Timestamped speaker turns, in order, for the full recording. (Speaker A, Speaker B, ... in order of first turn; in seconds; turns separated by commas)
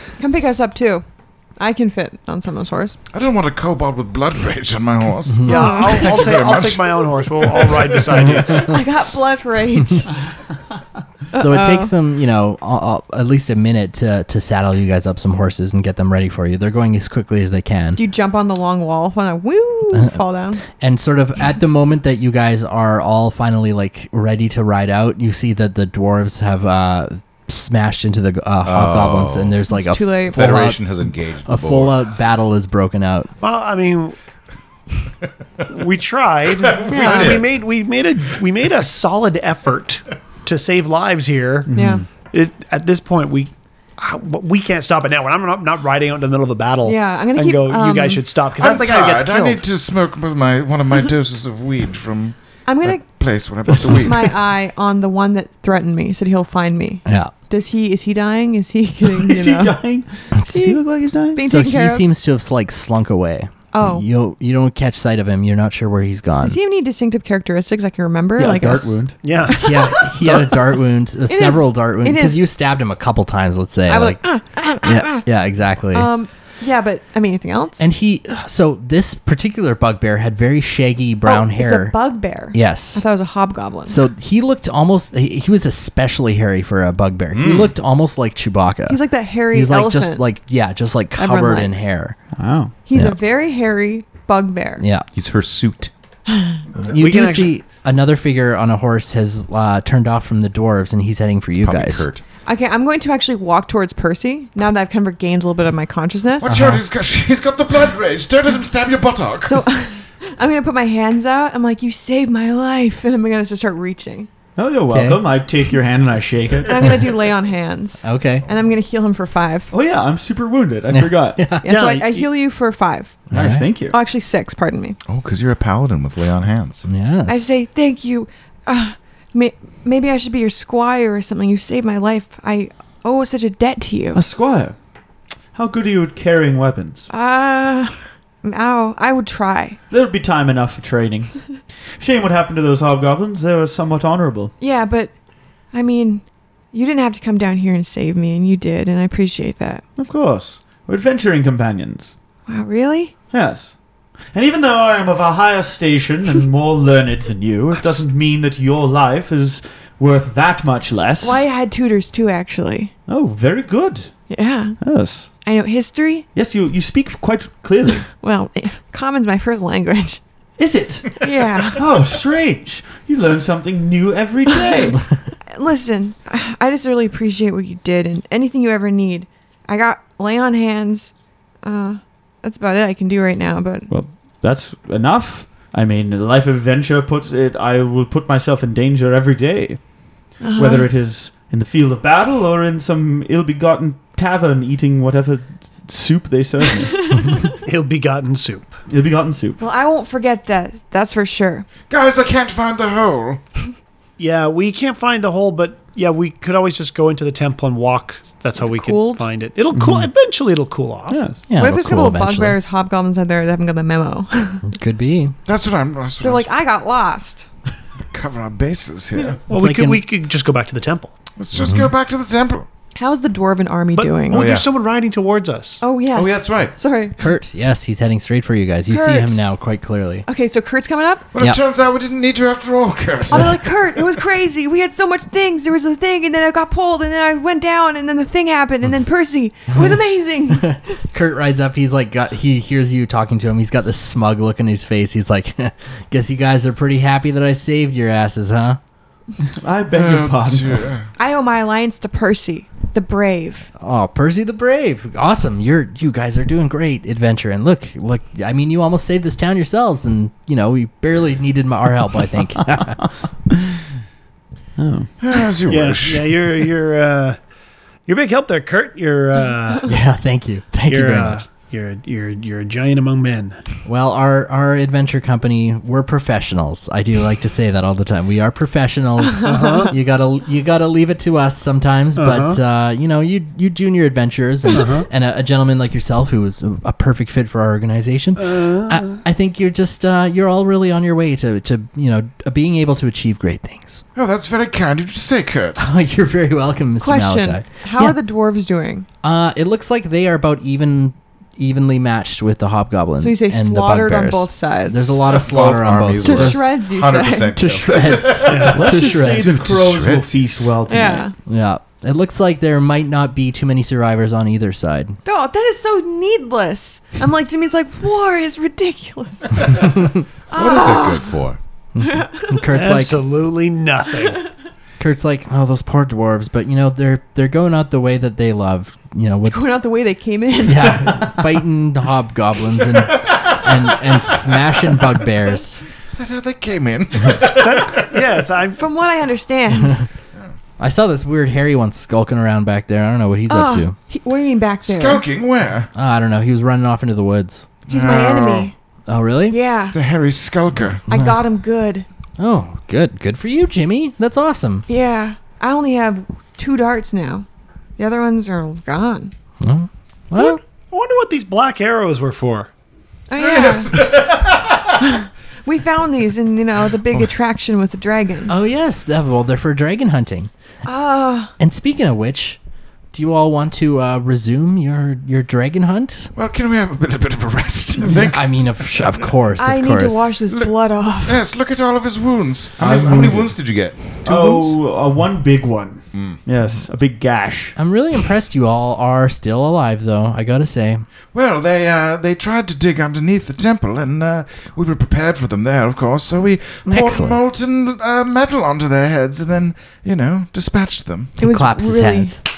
Speaker A: 0.2-1.1, Speaker A: 1.6-3.0, Speaker B: 3.1-8.4, Speaker C: 5.4-5.6, Speaker D: 5.5-8.8, Speaker A: 5.5-6.2, Speaker A: 8.5-10.1, Speaker A: 11.3-11.9, Speaker C: 11.3-18.0, Speaker A: 18.0-20.6, Speaker C: 20.7-30.9, Speaker B: 28.6-29.6, Speaker A: 29.7-30.6, Speaker B: 30.3-32.0, Speaker C: 31.4-33.3, Speaker D: 33.4-34.2, Speaker D: 35.7-41.7, Speaker B: 36.6-37.5, Speaker A: 36.9-37.4, Speaker E: 41.7-42.0, Speaker A: 41.7-42.1, Speaker D: 42.2-49.6, Speaker A: 46.8-48.2, Speaker B: 48.6-54.3, Speaker A: 52.7-53.1, Speaker A: 54.0-59.8, Speaker C: 57.1-57.3, Speaker E: 59.0-61.4, Speaker A: 60.4-60.8, Speaker A: 61.3-62.1, Speaker C: 61.5-66.6, Speaker A: 63.7-64.1, Speaker A: 66.4-69.0, Speaker E: 68.4-69.2, Speaker D: 69.2-70.5, Speaker A: 69.5-70.0, Speaker C: 69.5-74.2, Speaker A: 71.3-72.4, Speaker A: 73.9-75.3, Speaker C: 74.8-76.2, Speaker A: 75.9-77.9, Speaker C: 77.8-82.0, Speaker A: 81.2-84.0, Speaker C: 82.5-83.0, Speaker C: 83.9-92.2, Speaker B: 87.3-87.7, Speaker A: 88.9-90.2, Speaker A: 91.2-91.9, Speaker E: 92.4-92.7, Speaker A: 92.9-94.8, Speaker C: 94.8-95.1, Speaker B: 95.1-95.9, Speaker A: 96.3-96.6, Speaker C: 96.9-102.1, Speaker D: 96.9-97.5, Speaker B: 101.6-102.2, Speaker A: 102.5-106.5, Speaker B: 106.4-109.7, Speaker C: 106.4-106.8, Speaker A: 109.4-114.3, Speaker E: 114.6-116.9, Speaker C: 114.9-115.2, Speaker A: 116.7-119.7, Speaker C: 118.0-118.5, Speaker E: 119.7-121.5, Speaker C: 120.9-121.8, Speaker A: 121.6-123.2, Speaker D: 121.7-122.3, Speaker C: 123.3-123.7, Speaker E: 123.3-124.0, Speaker A: 123.9-125.0, Speaker B: 125.1-126.8, Speaker C: 126.9-127.5, Speaker A: 127.3-134.2, Speaker E: 134.1-134.8, Speaker E: 135.5-137.1, Speaker A: 137.1-139.8, Speaker E: 139.9-144.5, Speaker A: 144.6-145.1, Speaker A: 145.7-149.8, Speaker E: 150.0-152.2, Speaker A: 152.5-153.1, Speaker E: 153.3-153.8, Speaker E: 154.3-161.4, Speaker A: 161.2-162.9, Speaker E: 163.1-164.1, Speaker A: 164.3-164.8, Speaker E: 164.8-165.3, Speaker A: 165.4-166.3, Speaker E: 166.3-168.1, Speaker A: 168.2-170.2, Speaker E: 170.6-175.0, Speaker A: 171.2-171.9, Speaker A: 175.5-183.9, Speaker E: 183.9-189.8, Speaker A: 190.4-190.9, Speaker E: 190.6-197.3, Speaker A: 197.1-197.5, Speaker D: 197.6-198.8, Speaker E: 198.9-199.6, Speaker A: 199.6-201.7, Speaker B: 201.9-203.4, Speaker D: 204.2-211.2, Speaker A: 208.6-209.3, Speaker E: 209.7-210.1, Speaker E: 211.1-211.4, Speaker C: 211.5-212.6, Speaker A: 211.6-214.6, Speaker C: 214.7-215.3, Speaker B: 215.5-216.5, Speaker A: 216.2-217.5, Speaker B: 218.1-219.4, Speaker D: 219.5-221.2, Speaker C: 219.5-220.1, Speaker B: 221.4-222.7, Speaker C: 221.6-221.9, Speaker A: 222.9-224.5, Speaker D: 223.9-225.8, Speaker B: 224.3-224.7, Speaker A: 225.8-227.2, Speaker B: 226.1-226.7, Speaker C: 227.2-230.3, Speaker A: 228.9-229.4, Speaker A: 230.3-231.3, Speaker B: 231.3-233.6, Speaker A: 233.3-240.8, Speaker C: 240.5-248.8, Speaker E: 249.5-250.9, Speaker B: 249.9-251.1, Speaker A: 251.2-253.7, Speaker C: 253.8-263.1, Speaker E: 264.8-265.1, Speaker B: 265.2-266.4, Speaker D: 265.7-267.4, Speaker D: 268.1-269.9, Speaker C: 269.9-271.4, Speaker D: 270.9-273.6, Speaker C: 273.9-294.0, Speaker A: 279.4-279.8, Speaker D: 279.4-279.9, Speaker D: 282.2-282.6, Speaker D: 284.7-285.1, Speaker D: 288.4-289.2, Speaker B: 294.1-295.8, Speaker C: 295.8-298.2, Speaker A: 297.0-299.1, Speaker C: 299.2-306.7, Speaker A: 303.2-305.2, Speaker B: 305.3-310.4, Speaker A: 306.2-307.6, Speaker C: 307.5-309.7, Speaker D: 308.5-308.9, Speaker E: 308.6-311.3, Speaker A: 310.9-311.3, Speaker C: 311.4-315.2, Speaker A: 315.2-319.9, Speaker C: 319.8-320.2, Speaker B: 320.5-321.6, Speaker A: 320.5-321.3, Speaker C: 321.9-323.2, Speaker A: 322.0-322.6, Speaker D: 322.7-324.4, Speaker C: 325.0-329.6, Speaker A: 329.5-331.4, Speaker C: 330.6-335.8, Speaker B: 336.1-338.1, Speaker D: 337.4-338.8, Speaker A: 338.8-340.0, Speaker C: 340.8-344.0, Speaker A: 343.5-345.2, Speaker B: 344.8-345.9, Speaker C: 345.9-347.8, Speaker B: 347.9-348.7, Speaker A: 347.9-348.7, Speaker C: 349.1-349.6, Speaker A: 349.5-349.9, Speaker B: 349.9-351.0, Speaker C: 351.1-351.4, Speaker A: 351.1-352.1, Speaker C: 352.4-354.9, Speaker A: 354.9-357.5, Speaker A: 358.0-359.3, Speaker C: 359.6-360.6, Speaker D: 360.4-362.7, Speaker A: 363.3-364.1, Speaker B: 363.4-365.1, Speaker A: 365.0-368.5, Speaker C: 368.5-370.5, Speaker A: 370.9-371.5, Speaker C: 371.6-372.6, Speaker C: 373.1-376.3, Speaker B: 376.4-378.4, Speaker C: 378.2-380.3, Speaker A: 379.6-381.4, Speaker B: 381.2-384.6, Speaker E: 382.8-383.5, Speaker E: 384.2-387.8, Speaker C: 387.8-391.0, Speaker B: 391.3-401.4, Speaker C: 396.9-397.4, Speaker A: 401.4-402.4, Speaker C: 401.4-402.4